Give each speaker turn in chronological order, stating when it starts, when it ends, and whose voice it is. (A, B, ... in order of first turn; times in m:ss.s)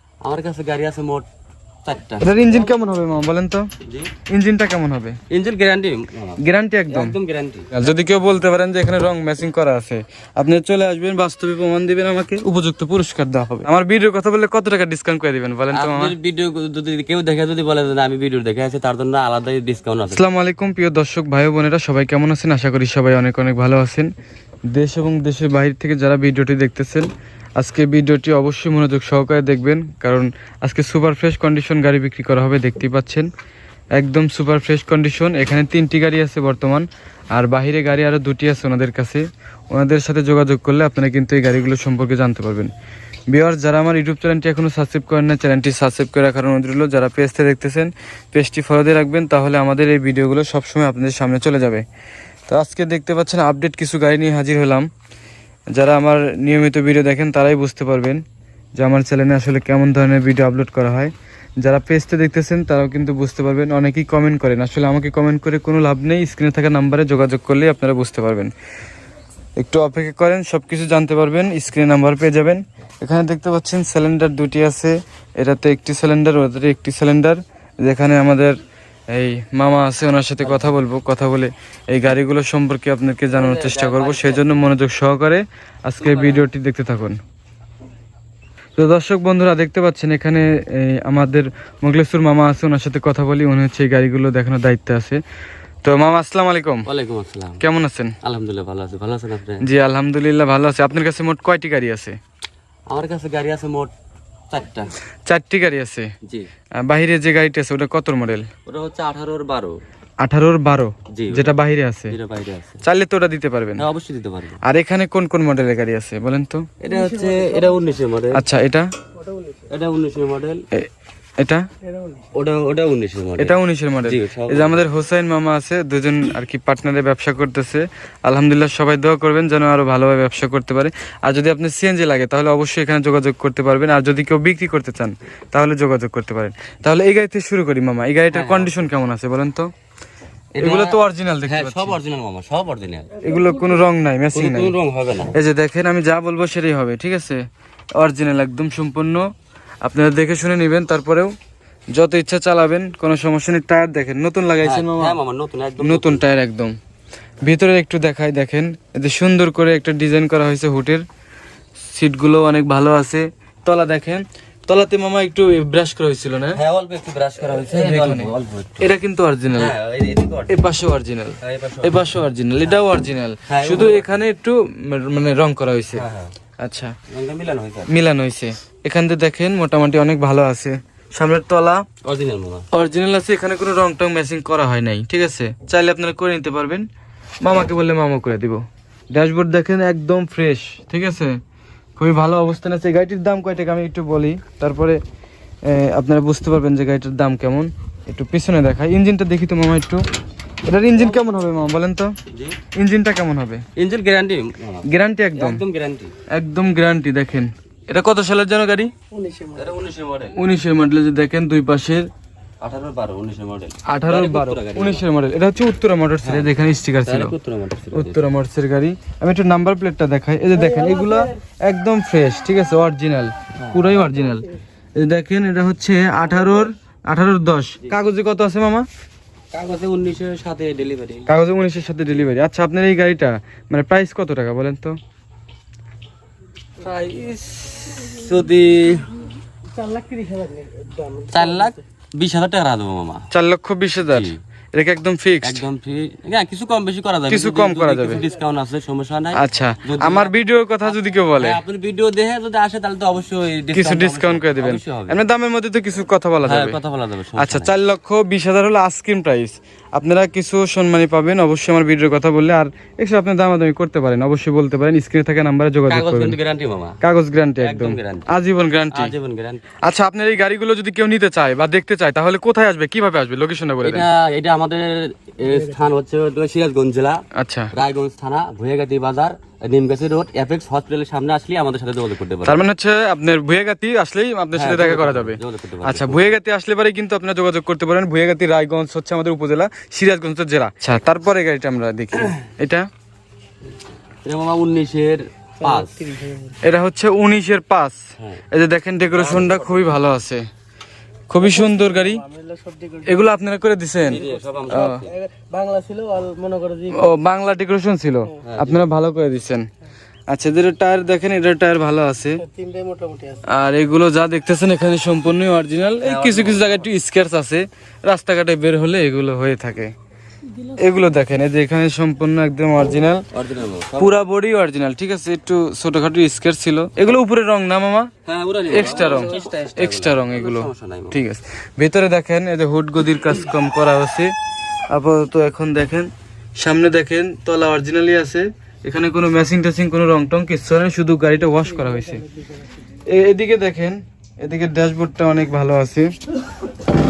0:00.2-0:01.2 A
0:01.8-0:02.5 A
0:02.2-0:03.7 B
0:03.8-0:04.1 A
0:04.3-0:05.2 B
0:05.3-0:07.7 A
0:06.4-0:07.2 B
0:07.7-0:16.1 B
0:15.7-0:20.2 A
0:20.1-0:24.1 B
0:24.7-0:33.3 B
0:34.0-0:42.7 B
0:43.3-0:51.8 B
0:52.5-0:54.9 B
0:55.7-0:58.2 B
0:58.8-1:08.5 B
1:09.6-1:18.6 B
1:19.1-1:27.2 B
1:20.4-1:20.7 A
1:23.3-1:24.4 A
1:26.0-1:26.5 A
1:28.8-1:35.2 B
1:35.8-1:36.9 B
1:36.8-1:37.6 A
1:37.6-1:38.2 B
1:38.2-1:39.7 A
1:39.6-1:42.2 B
1:42.9-1:43.9 A
1:44.5-1:44.9 A
1:45.2-1:46.1 B
1:46.2-1:46.5 A
1:46.8-1:48.5 B
1:48.7-1:49.8 A
1:50.2-1:52.2 B
1:51.1-1:51.6 A
1:52.1-1:52.8 A
1:52.8-1:53.8 B
1:53.8-1:54.6 A
1:54.6-1:56.7 B
1:56.8-1:58.4 A
1:56.9-1:57.8 C
1:58.3-1:58.9 B
1:59.2-1:59.7 C
1:59.7-2:00.6 A
2:00.7-2:01.7 B
2:01.8-2:02.3 C
2:02.3-2:04.8 A
2:03.4-2:19.7 B
2:18.3-2:18.8 A
2:20.5-2:23.3 A
2:20.6-2:22.0 B
2:23.2-2:24.7 B
2:24.3-2:25.4 A
2:25.3-2:27.4 B
2:28.0-2:29.3 B
2:29.8-2:31.3 B
2:31.9-2:35.2 B
2:34.6-2:36.2 A
2:35.8-2:36.7 B
2:37.4-2:41.0 B
2:41.8-2:46.6 B
2:46.5-2:48.9 A
2:47.7-2:49.7 B
2:49.5-2:50.6 A
2:50.5-2:56.0 B
2:51.4-2:52.0 A
2:53.5-2:54.1 A
2:55.9-2:56.3 A
2:56.6-2:57.0 B
2:57.1-2:57.9 A
2:57.9-3:01.8 B
3:02.0-3:02.7 A
3:02.7-3:06.9 B
3:07.4-3:11.4 B
3:12.0-3:15.0 B
3:15.6-3:20.0 B
3:20.6-3:22.1 B
3:22.3-3:22.6 A
3:22.7-3:23.6 B
3:23.8-3:26.1 A
3:24.9-3:25.6 B
3:26.3-3:28.9 B
3:29.1-3:29.7 C
3:29.5-3:30.4 A
3:30.3-3:32.1 B
3:32.6-3:35.1 A
3:33.9-3:37.3 B
3:36.2-3:38.2 A
3:37.9-3:48.9 B
3:40.6-3:41.3 C
3:43.6-3:44.0 A
3:49.5-3:51.3 A
3:51.3-3:55.0 B
3:56.8-3:59.2 A
3:59.7-4:01.8 C
4:01.3-4:03.3 A
4:03.3-4:05.6 B
4:04.1-4:04.4 A
4:05.4-4:15.2 A
4:07.3-4:08.2 B
4:09.3-4:11.6 B
4:13.7-4:16.8 B
4:16.4-4:17.7 A
4:17.4-4:26.4 B
4:25.9-4:27.0 A
4:27.0-4:29.1 B
4:27.6-4:28.3 A
4:28.9-4:29.6 A
4:29.8-4:34.0 B
4:33.8-4:42.6 A
4:35.5-4:35.8 C
4:37.3-4:37.7 B
4:42.4-4:52.9 B
4:44.5-4:46.3 A
4:54.2-4:56.1 A
4:55.6-4:56.6 C
4:56.6-4:58.0 B
4:58.2-4:58.4 A
4:58.5-5:00.4 B
4:59.1-5:00.0 A
5:01.3-5:02.2 B
5:01.4-5:03.3 C
5:03.0-5:05.0 B
5:04.0-5:05.1 A
5:04.3-5:07.1 C
5:06.9-5:09.7 B
5:08.4-5:08.8 A
5:10.3-5:12.4 B
5:12.4-5:13.4 C
5:13.5-5:19.9 B
5:16.0-5:16.9 A
5:20.7-5:23.3 B
5:23.3-5:24.2 A
5:24.0-5:28.1 B
5:28.2-5:31.2 A
5:28.7-5:34.3 B
5:34.9-5:42.2 B
5:41.5-5:42.8 C
5:43.0-5:46.1 B